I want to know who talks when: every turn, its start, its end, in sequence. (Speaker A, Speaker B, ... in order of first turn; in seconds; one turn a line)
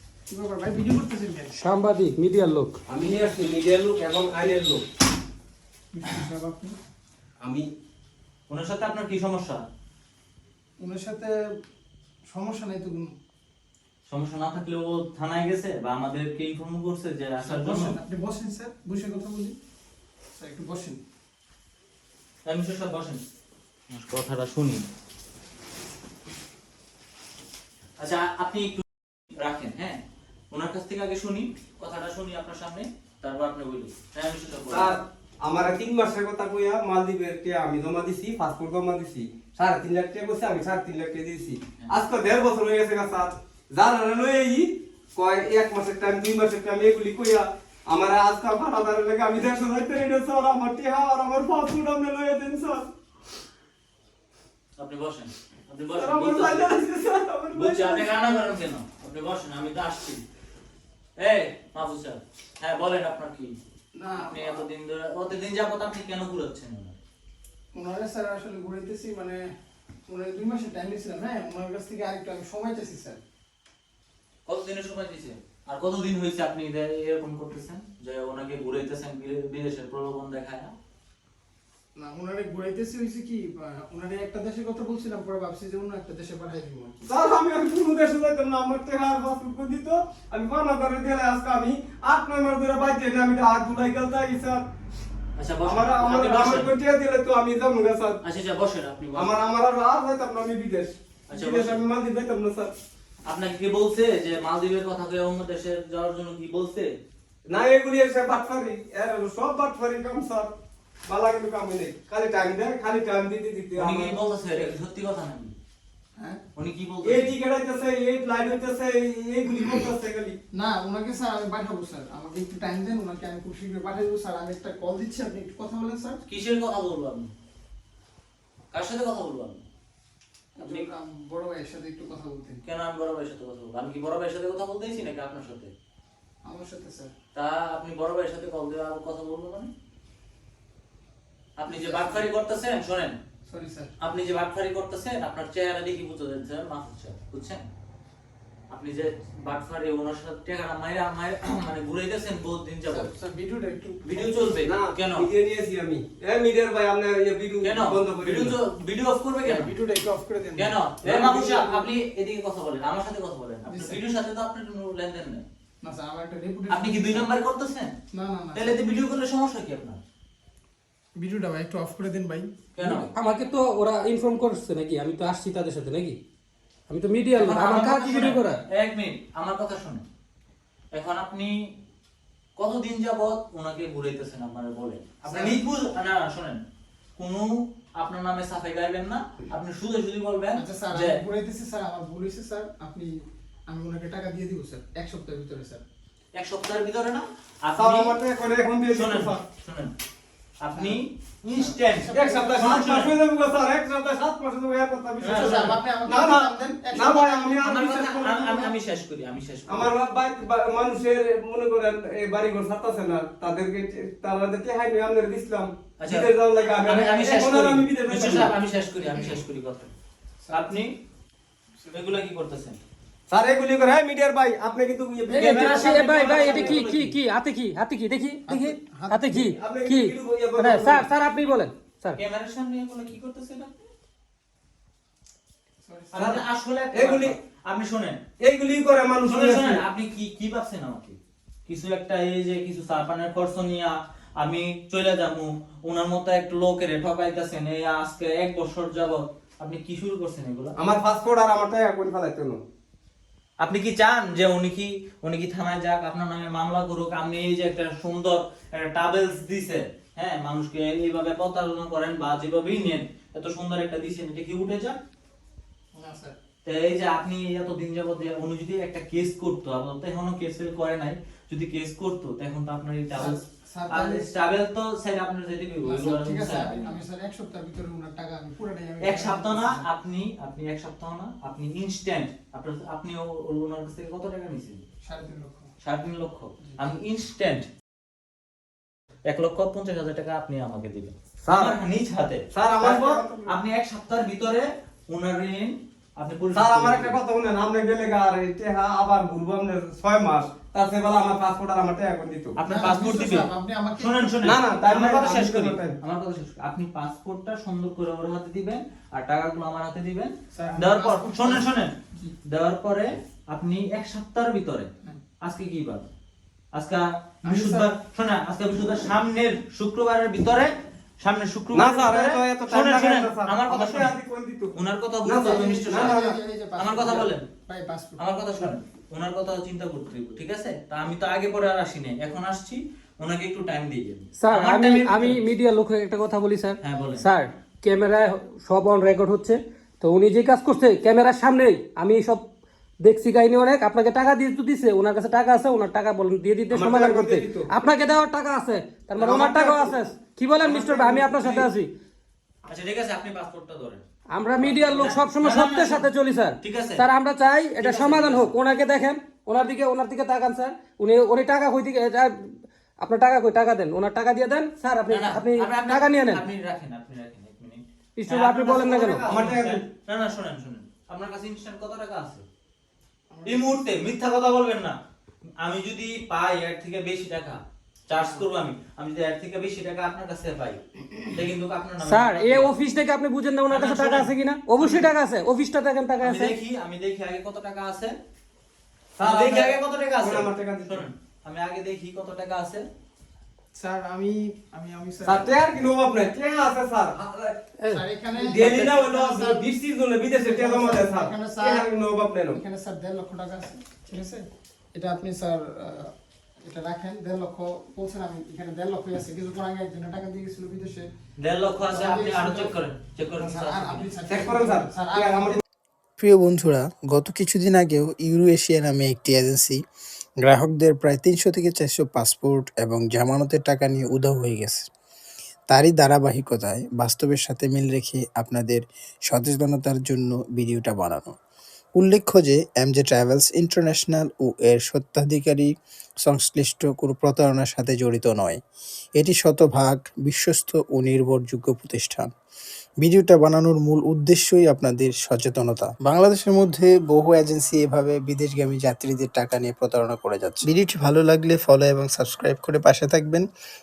Speaker A: 0.3-1.6
Speaker B: 1.6-2.8
Speaker C: 2.9-4.8
Speaker A: 5.9-6.8
Speaker C: 7.4-7.7
Speaker D: 8.5-9.6
Speaker A: 10.8-11.3
Speaker A: 12.3-13.2
Speaker D: 14.1-18.0
Speaker A: 17.4-19.6
Speaker A: 20.4-21.0
Speaker D: 22.4-23.2
Speaker D: 23.9-24.9
Speaker D: 28.0-28.8
Speaker D: 29.4-35.0
Speaker C: 34.7-52.9
Speaker D: 54.8-56.7
Speaker C: 56.0-58.4
Speaker D: 57.5-60.2
Speaker D: 61.2-63.6
Speaker A: 63.9-64.7
Speaker D: 64.2-67.0
Speaker A: 67.7-69.4
Speaker A: 70.1-73.2
Speaker D: 74.5-80.7
Speaker A: 82.0-87.0
Speaker C: 87.0-94.6
Speaker D: 95.4-96.7
Speaker C: 95.6-98.2
Speaker D: 98.2-99.3
Speaker C: 99.2-102.7
Speaker D: 101.3-101.8
Speaker D: 103.2-106.9
Speaker C: 107.5-110.5
Speaker C: 111.1-114.7
Speaker D: 113.8-115.6
Speaker D: 116.6-117.3
Speaker C: 117.0-120.4
Speaker A: 120.5-126.2
Speaker D: 126.3-127.3
Speaker D: 128.7-129.6
Speaker A: 130.6-132.6
Speaker D: 132.7-135.7
Speaker A: 136.4-137.1
Speaker D: 137.3-139.7
Speaker D: 141.6-143.2
Speaker A: 141.7-142.3
Speaker A: 143.4-143.9
Speaker D: 144.0-147.7
Speaker D: 148.7-153.1
Speaker A: 152.9-154.3
Speaker D: 154.0-155.3
Speaker C: 154.6-158.6
Speaker D: 157.6-159.7
Speaker A: 159.4-160.8
Speaker D: 160.6-165.4
Speaker C: 161.0-161.8
Speaker A: 163.7-164.0
Speaker A: 165.8-167.3
Speaker D: 166.7-167.9
Speaker A: 168.1-168.8
Speaker D: 168.5-170.0
Speaker A: 171.2-173.1
Speaker D: 172.8-173.1
Speaker B: 173.1-176.2
Speaker B: 176.9-178.6
Speaker D: 177.4-180.0
Speaker D: 180.9-181.7
Speaker D: 182.6-186.6
Speaker A: 185.2-185.6
Speaker D: 187.2-191.2
Speaker A: 190.5-193.2
Speaker A: 193.7-195.8
Speaker D: 196.3-198.2
Speaker C: 197.8-199.4
Speaker D: 198.9-199.9
Speaker D: 200.6-203.2
Speaker A: 200.7-202.8
Speaker C: 202.1-208.7
Speaker A: 205.2-208.3
Speaker D: 205.2-205.7
Speaker D: 207.6-209.9
Speaker C: 209.7-218.5
Speaker D: 216.0-219.9
Speaker A: 219.0-219.4
Speaker A: 220.4-220.8
Speaker D: 220.5-220.9
Speaker A: 221.8-222.2
Speaker D: 221.9-222.8
Speaker C: 223.3-226.8
Speaker D: 225.3-227.2
Speaker B: 225.3-232.2
Speaker A: 228.5-229.5
Speaker C: 229.5-231.1
Speaker D: 232.2-233.9
Speaker A: 235.8-236.3
Speaker D: 236.1-238.2
Speaker C: 236.1-237.3
Speaker C: 238.4-239.8
Speaker D: 239.2-250.8
Speaker C: 250.8-252.6
Speaker D: 253.6-265.0
Speaker A: 265.9-266.4
Speaker D: 266.6-277.0
Speaker A: 273.1-274.3
Speaker A: 275.8-279.9
Speaker D: 279.0-284.8
Speaker A: 285.0-285.7
Speaker D: 285.8-287.7
Speaker A: 286.6-286.9
Speaker D: 289.3-297.2
Speaker C: 291.4-291.8
Speaker C: 292.5-293.5
Speaker C: 296.5-302.6
Speaker D: 302.6-311.9
Speaker A: 302.6-304.8
Speaker C: 304.4-305.9
Speaker A: 310.5-312.3
Speaker D: 312.5-314.9
Speaker D: 315.4-316.1
Speaker D: 316.7-324.2
Speaker A: 317.4-317.9
Speaker C: 321.7-326.4
Speaker D: 324.7-326.2
Speaker A: 325.4-328.7
Speaker D: 326.8-327.5
Speaker D: 328.2-335.4
Speaker B: 334.4-342.4
Speaker D: 336.8-337.2
Speaker B: 343.0-351.9
Speaker C: 346.7-347.7
Speaker C: 349.2-349.9
Speaker C: 350.6-351.7
Speaker D: 352.7-354.0
Speaker B: 354.3-366.4
Speaker D: 354.6-356.1
Speaker D: 356.6-357.0
Speaker D: 357.8-358.5
Speaker D: 365.1-372.4
Speaker B: 368.2-369.3
Speaker C: 369.3-369.9
Speaker A: 373.3-373.9
Speaker D: 373.5-375.0
Speaker D: 375.6-382.7
Speaker A: 378.1-378.4
Speaker B: 382.0-386.6
Speaker D: 383.7-385.1
Speaker D: 386.2-388.1
Speaker C: 389.2-391.1
Speaker D: 389.2-392.9
Speaker A: 393.7-395.7
Speaker C: 395.2-397.6
Speaker A: 397.9-399.7
Speaker C: 398.4-402.6
Speaker B: 398.6-399.0
Speaker A: 400.4-401.9
Speaker A: 402.5-406.1
Speaker A: 406.6-411.1
Speaker D: 411.4-414.1
Speaker A: 411.8-412.8
Speaker A: 413.4-415.6
Speaker C: 414.3-415.6
Speaker E: 416.2-419.8
Speaker E: 420.4-424.9
Speaker E: 425.7-431.4
Speaker E: 432.0-435.7
Speaker E: 436.2-438.6
Speaker E: 439.2-442.3
Speaker E: 443.0-453.4